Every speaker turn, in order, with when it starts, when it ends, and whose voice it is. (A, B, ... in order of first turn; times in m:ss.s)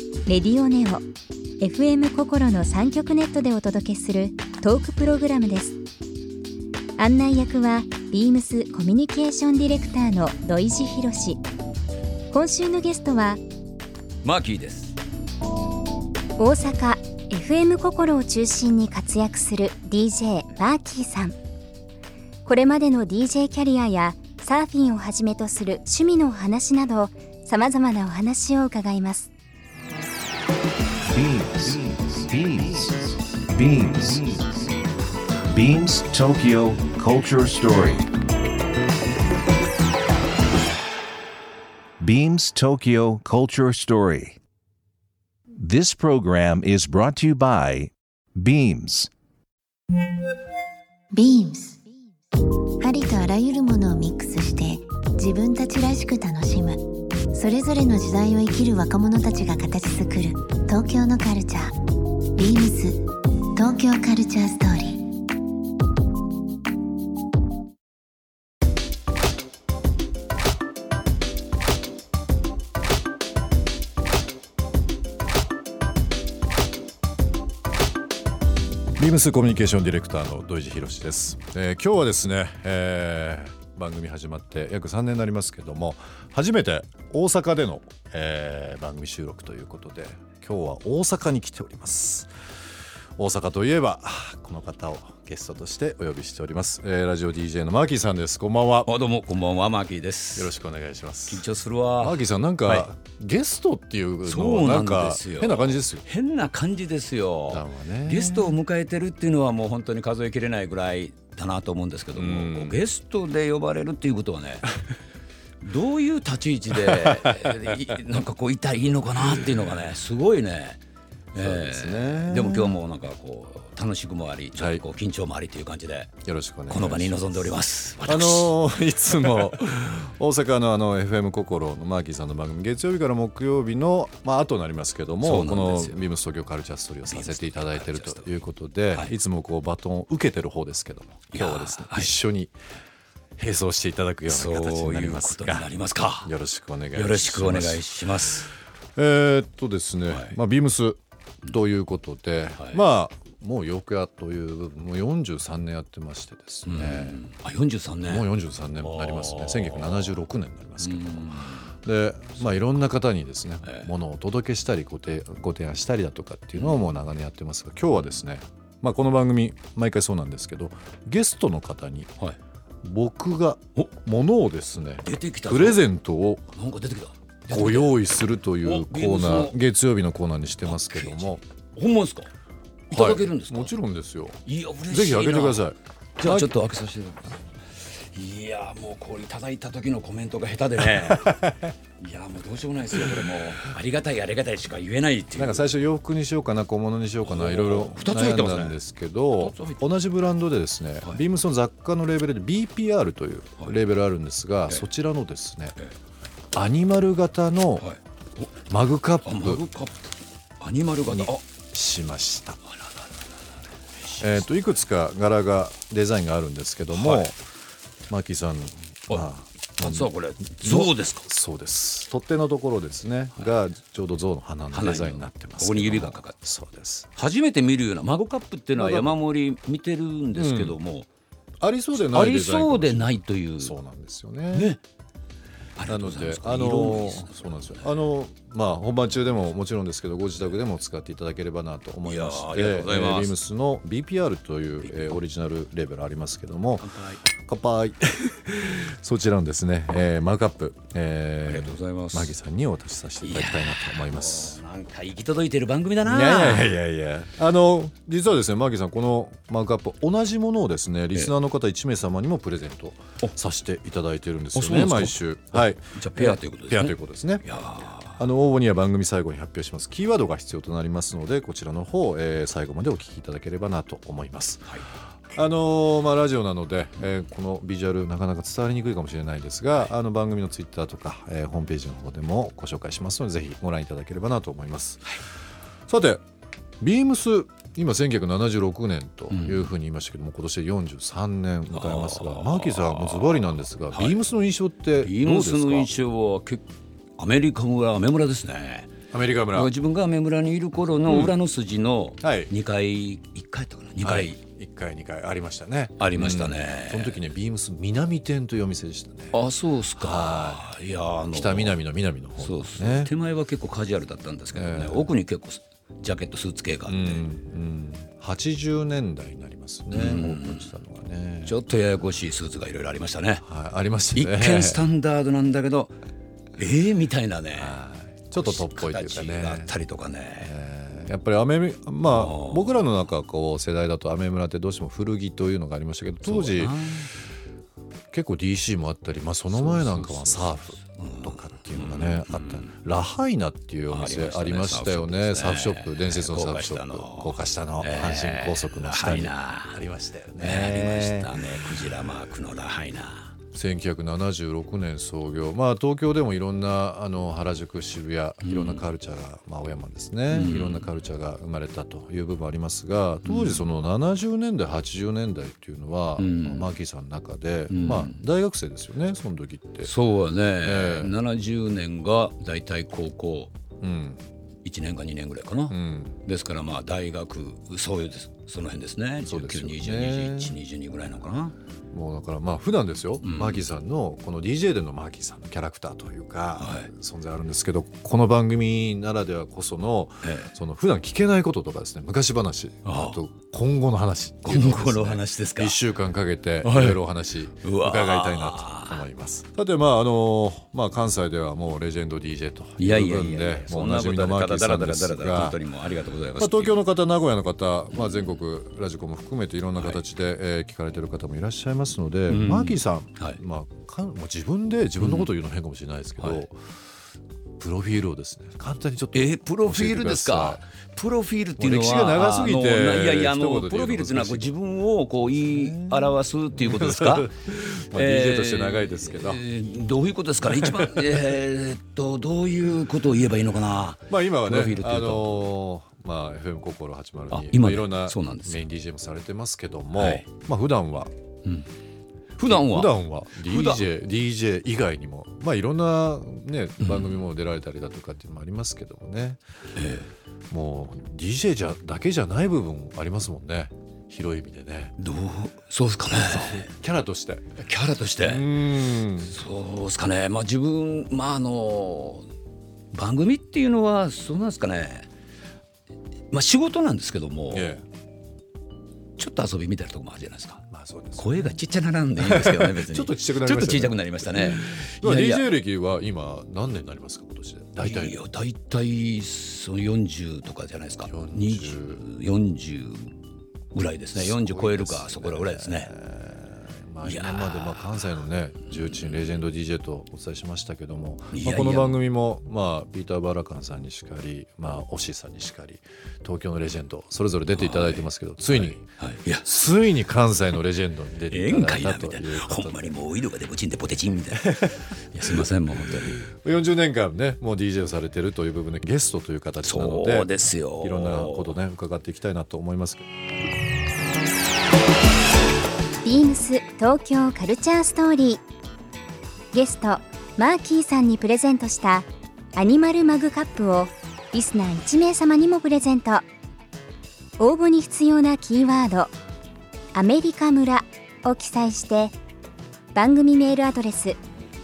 0:00.3-0:01.0 A
0:01.6-0:05.8 A
0:07.0-0:11.4 A
0:12.3-0:13.4 A
0:14.2-0:15.0 B
0:16.4-0:21.4 A
0:22.4-0:29.3 A
0:31.0-0:34.6 C
0:35.4-0:38.1 C
0:42.0-0:44.4 C
0:45.5-0:49.1 C
0:51.1-0:51.8 D
0:52.8-1:01.8 D
1:02.4-1:05.0 D
1:19.0-1:32.3 E
1:33.2-1:38.9 E
1:38.8-1:40.6 B
1:40.4-1:41.4 E
1:41.3-1:42.9 B
1:42.0-1:46.0 E
1:44.2-1:54.7 B
1:47.5-1:48.6 E
1:52.1-1:52.8 E
1:55.6-2:00.8 B
1:57.2-1:57.5 E
2:01.3-2:02.8 E
2:01.3-2:06.1 B
2:04.5-2:04.8 E
2:06.2-2:07.4 E
2:06.7-2:08.5 B
2:08.0-2:22.5 E
2:15.2-2:16.1 B
2:17.1-2:18.4 B
2:21.3-2:22.1 B
2:23.4-2:27.8 E
2:24.3-2:26.3 B
2:26.9-2:28.5 B
2:29.0-2:37.2 E
2:30.1-2:30.4 B
2:36.7-2:38.3 B
2:38.0-2:52.1 E
2:38.8-2:40.2 B
2:40.8-2:41.7 B
2:42.4-2:42.7 B
2:43.6-2:43.9 B
2:46.5-2:46.8 B
2:52.8-2:56.5 E
2:55.0-2:55.8 B
2:56.5-2:59.6 B
2:57.5-3:01.4 E
3:00.6-3:02.3 B
3:02.9-3:03.7 B
3:02.9-3:06.6 E
3:04.4-3:07.4 B
3:08.1-3:11.4 B
3:10.8-3:11.7 E
3:12.0-3:15.7 B
3:13.0-3:13.3 E
3:15.4-3:25.8 E
3:17.2-3:18.8 B
3:19.3-3:19.8 B
3:26.5-3:27.9 E
3:27.8-3:28.5 B
3:28.7-3:29.6 E
3:29.2-3:31.4 B
3:31.1-3:32.6 E
3:34.0-3:34.5 B
3:34.2-3:37.4 E
3:36.9-3:37.3 B
3:38.1-3:47.1 E
3:39.1-3:41.3 B
3:44.7-3:46.4 B
3:47.2-3:51.1 B
3:48.8-3:49.2 E
3:50.3-3:50.8 E
3:51.6-3:54.7 E
3:52.0-3:53.7 B
3:54.5-3:54.8 B
3:55.8-3:58.0 B
3:55.9-4:14.6 E
4:02.0-4:03.4 B
4:04.8-4:05.2 B
4:06.8-4:07.2 B
4:11.4-4:12.3 B
4:13.2-4:16.8 B
4:16.0-4:27.4 E
4:24.5-4:28.2 B
4:28.1-4:34.8 E
4:35.3-4:45.2 E
4:45.9-4:46.2 E
4:46.8-4:55.9 E
4:49.3-4:49.7 B
4:51.7-4:54.2 B
4:55.0-4:56.6 B
4:57.2-4:58.9 B
4:59.1-4:59.7 E
4:59.5-5:04.4 B
5:01.0-5:01.3 E
5:02.2-5:02.5 E
5:04.0-5:09.4 E
5:06.0-5:07.2 B
5:09.3-5:11.8 B
5:10.0-5:10.6 E
5:11.3-5:13.1 E
5:12.4-5:17.2 B
5:14.5-5:15.1 E
5:16.9-5:21.6 E
5:19.9-5:20.7 B
5:21.4-5:23.4 B
5:23.4-5:24.8 E
5:24.1-5:26.0 B
5:26.6-5:27.8 B
5:27.5-5:29.8 E
5:28.3-5:30.5 B
5:30.4-5:36.7 E
5:32.0-5:32.8 B
5:36.2-5:37.1 B
5:38.1-5:51.9 E
5:39.5-5:42.7 B
5:43.9-5:49.8 B
5:50.4-5:53.3 B
5:53.5-6:09.9 E
5:58.4-5:58.8 B
6:00.3-6:00.9 B
6:03.2-6:03.6 B
6:06.2-6:06.7 B
6:07.7-6:08.2 B
6:09.8-6:13.5 B
6:10.6-6:11.1 E
6:13.8-6:14.2 E
6:14.6-6:21.5 B
6:15.7-6:16.2 E
6:19.2-6:20.5 E
6:21.9-6:45.6 E
6:23.2-6:23.7 B
6:26.6-6:26.9 B
6:30.2-6:30.5 B
6:32.8-6:33.2 B
6:34.4-6:35.8 B
6:36.6-6:37.0 B
6:37.6-6:39.0 B
6:42.8-6:46.8 B
6:46.3-6:56.6 E
6:47.9-6:48.3 B
6:49.8-6:50.0 B
6:52.3-6:53.4 B
6:55.0-6:55.3 B
6:56.2-6:56.4 B
6:57.6-7:00.6 E
6:59.1-7:15.3 B
7:01.6-7:04.5 E
7:05.4-7:09.4 E
7:10.4-7:11.2 E
7:14.1-7:21.1 E
7:17.3-7:18.6 B
7:19.9-7:20.2 B
7:22.4-7:23.8 B
7:22.4-7:29.4 E
7:26.8-7:27.2 B
7:29.8-7:30.1 B
7:30.5-7:34.9 E
7:35.0-7:36.7 B
7:36.1-7:37.5 E
7:37.6-7:42.2 B
7:38.2-7:39.3 E
7:42.9-7:45.1 B
7:46.3-7:47.7 B
7:47.5-7:47.8 E
7:49.2-7:50.6 B
7:50.7-7:51.6 E
7:51.2-7:55.5 B
7:52.2-7:58.2 E
7:57.8-8:03.1 B
8:01.0-8:02.0 E
8:03.7-8:05.9 B
8:04.1-8:23.0 E
8:07.0-8:09.4 B
8:11.3-8:12.0 B
8:17.5-8:19.4 B
8:21.3-8:26.3 B
8:24.3-8:33.0 E
8:29.6-8:31.6 B
8:36.0-8:38.4 A
8:39.5-8:46.2 A
8:47.4-8:49.1 A
8:49.9-8:52.1 A
8:52.9-8:54.2 A